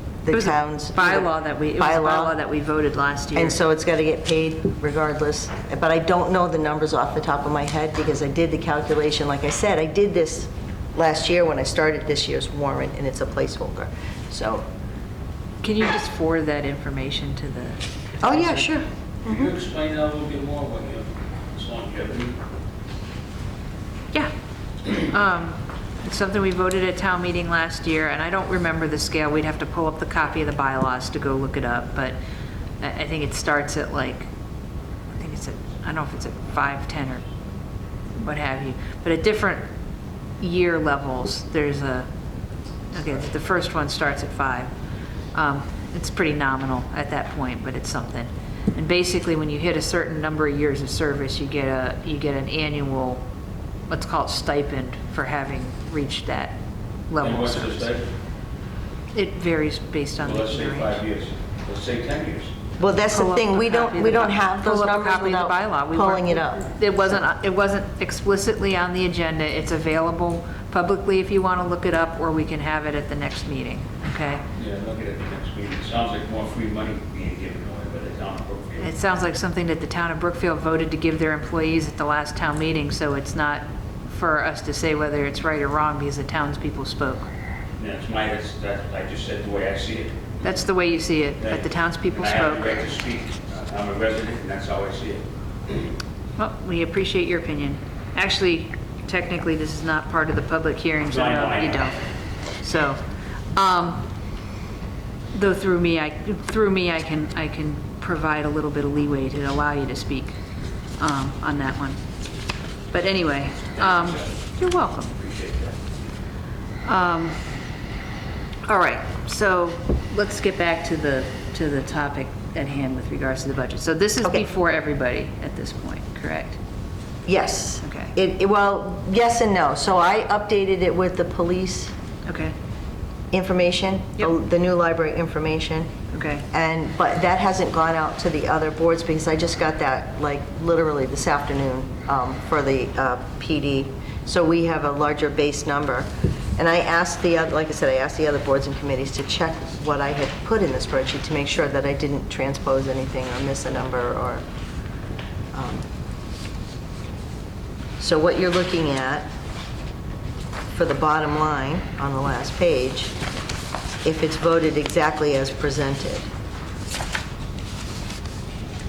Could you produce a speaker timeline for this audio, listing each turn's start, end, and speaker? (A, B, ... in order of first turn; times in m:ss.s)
0:00.2-0:02.4 A
0:00.3-0:03.6 B
0:03.3-0:14.6 A
0:15.6-0:18.8 B
0:18.2-0:19.5 A
0:19.2-0:22.4 C
0:24.9-0:32.2 B
0:32.8-0:34.3 B
0:35.1-0:37.2 B
0:38.1-0:39.6 B
0:40.4-0:42.1 B
0:42.9-0:44.7 B
0:45.3-0:53.2 B
0:53.9-0:56.6 B
0:57.1-0:57.9 B
0:57.2-0:58.1 C
0:59.1-1:01.0 B
1:00.2-1:02.5 C
1:02.8-1:07.2 A
1:03.1-1:14.4 B
1:14.6-1:19.0 C
1:18.8-1:27.3 B
1:27.8-1:30.2 C
1:30.4-1:32.8 B
1:31.4-1:35.8 C
1:36.4-1:42.0 B
1:41.1-1:41.9 C
1:42.6-1:43.0 B
1:43.5-1:44.0 B
1:45.3-1:50.3 B
1:51.0-1:52.0 B
1:52.9-1:55.2 B
1:53.8-1:54.3 C
1:55.1-1:55.8 C
1:56.8-1:57.4 B
1:58.6-2:06.6 B
2:07.2-2:11.9 A
2:07.8-2:08.1 B
2:12.2-2:12.5 B
2:13.3-2:15.9 A
2:16.1-2:16.4 B
2:16.5-2:34.4 A
2:35.5-2:35.8 A
2:38.0-2:39.3 A
2:40.7-2:43.2 A
2:44.0-2:46.3 A